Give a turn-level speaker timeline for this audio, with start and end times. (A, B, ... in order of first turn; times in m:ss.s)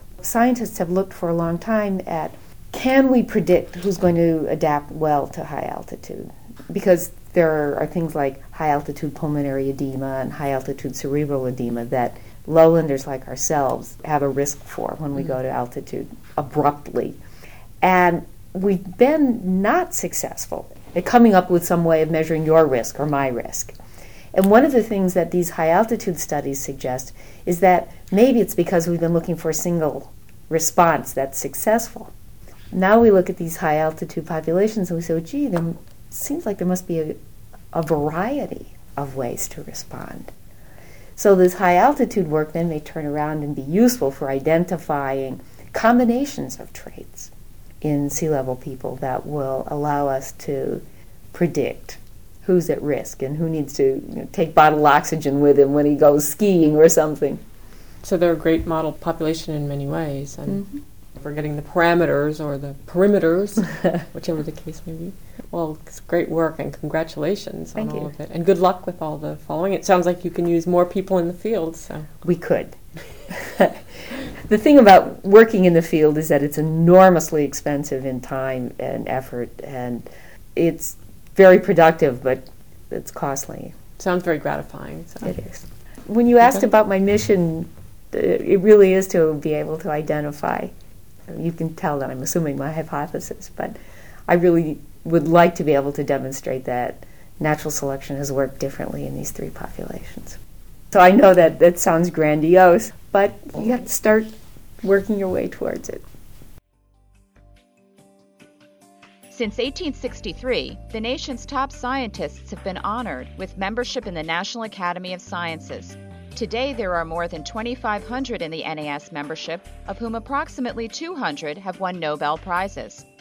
0:00.2-0:17.2 A
0:17.8-0:23.7 A
0:24.3-0:32.1 A
0:32.7-0:37.2 A
0:37.7-0:40.3 A
0:41.2-0:47.3 A
0:47.8-0:57.4 A
0:58.0-1:00.7 B
1:01.2-1:12.1 B
1:07.8-1:08.1 A
1:12.2-1:23.7 A
1:24.0-1:25.4 B
1:25.2-1:30.7 A
1:31.3-1:33.8 A
1:34.3-1:40.4 A
1:40.9-1:46.0 A
1:49.3-2:03.0 C